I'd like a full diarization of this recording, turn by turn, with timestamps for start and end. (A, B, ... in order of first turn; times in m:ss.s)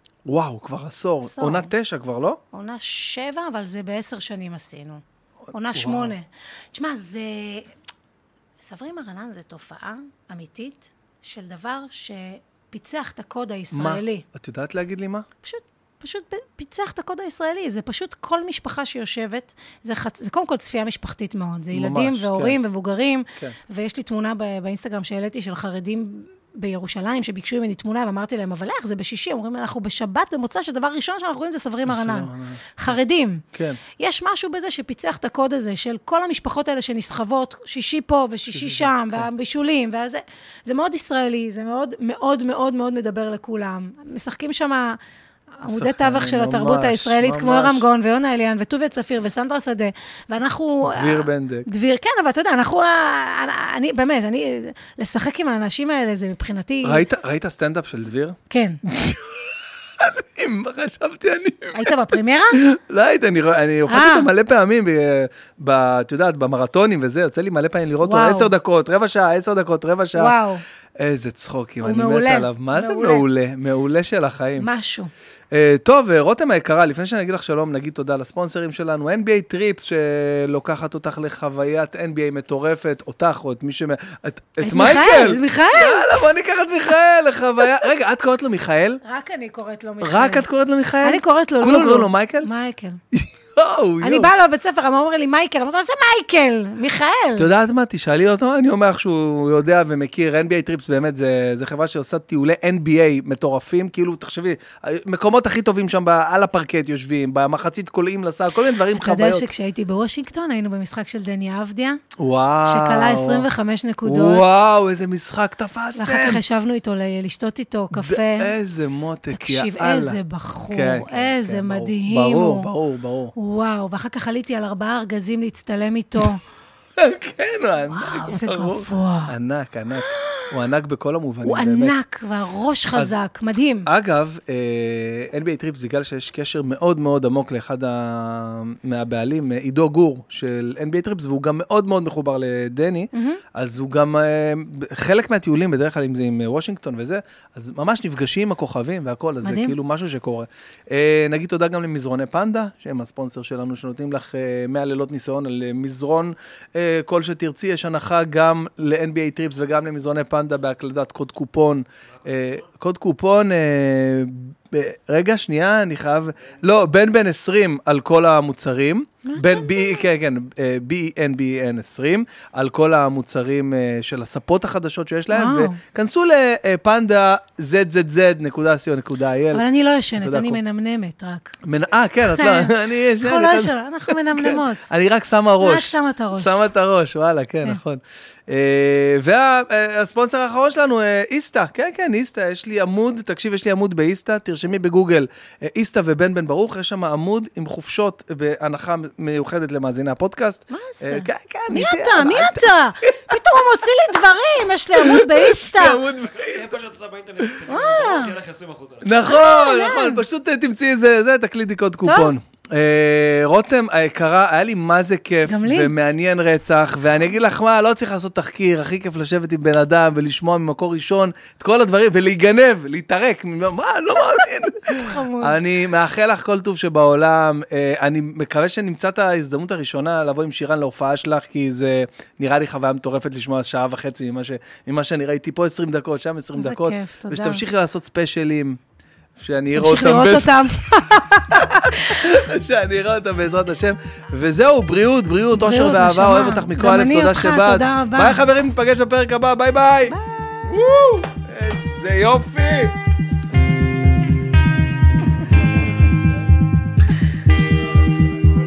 0:00.3-0:02.4 A
0:01.2-0:01.7 B
0:02.5-0:07.7 B
0:05.7-0:06.1 A
0:08.6-0:14.3 B
0:13.7-0:15.3 A
0:15.4-0:45.0 B
0:21.7-0:22.6 A
0:31.9-0:32.9 A
0:33.5-0:33.8 A
0:38.5-0:39.3 A
0:45.6-0:57.1 B
0:45.7-0:47.9 A
0:50.8-0:51.7 A
0:56.8-1:02.0 A
0:58.5-0:58.8 B
1:01.7-1:02.6 B
1:02.6-1:10.4 A
1:03.9-1:04.3 B
1:08.0-1:08.5 B
1:10.2-1:10.6 B
1:11.0-1:14.7 A
1:11.8-1:13.3 B
1:14.6-1:15.1 B
1:15.5-1:29.0 A
1:24.6-1:26.2 B
1:29.0-1:30.5 B
1:30.0-1:32.5 A
1:31.0-1:33.0 B
1:33.1-1:34.3 A
1:34.0-1:37.5 B
1:37.4-1:49.5 A
1:48.9-1:52.0 B
1:52.2-1:53.5 A
1:52.6-1:54.5 B
1:54.0-1:56.4 A
1:56.0-1:58.5 B
1:57.9-2:00.2 A
1:59.3-2:02.7 B
2:00.7-2:03.3 A
2:03.4-2:06.4 B
2:07.0-2:12.0 A
2:07.9-2:09.4 B
2:10.0-2:10.5 B
2:11.4-2:13.9 B
2:13.9-2:59.6 A
2:23.1-2:23.4 B
2:29.4-2:29.8 B
2:42.2-2:42.6 C
2:49.2-2:50.1 B
2:55.3-2:55.8 B
2:59.5-3:01.6 B
3:00.2-3:00.6 A
3:01.6-3:23.6 A
3:02.2-3:04.9 B
3:05.6-3:06.6 B
3:20.7-3:26.0 B
3:24.9-3:26.8 A
3:26.1-3:29.2 C
3:27.7-3:28.4 B
3:29.0-3:58.8 A
3:29.2-3:30.2 B
3:32.0-3:32.3 B
3:35.4-3:35.9 B
3:44.9-3:45.6 B
3:56.6-3:57.6 B
3:59.4-4:13.0 A
3:59.7-4:02.3 B
4:05.5-4:08.4 B
4:10.1-4:10.8 B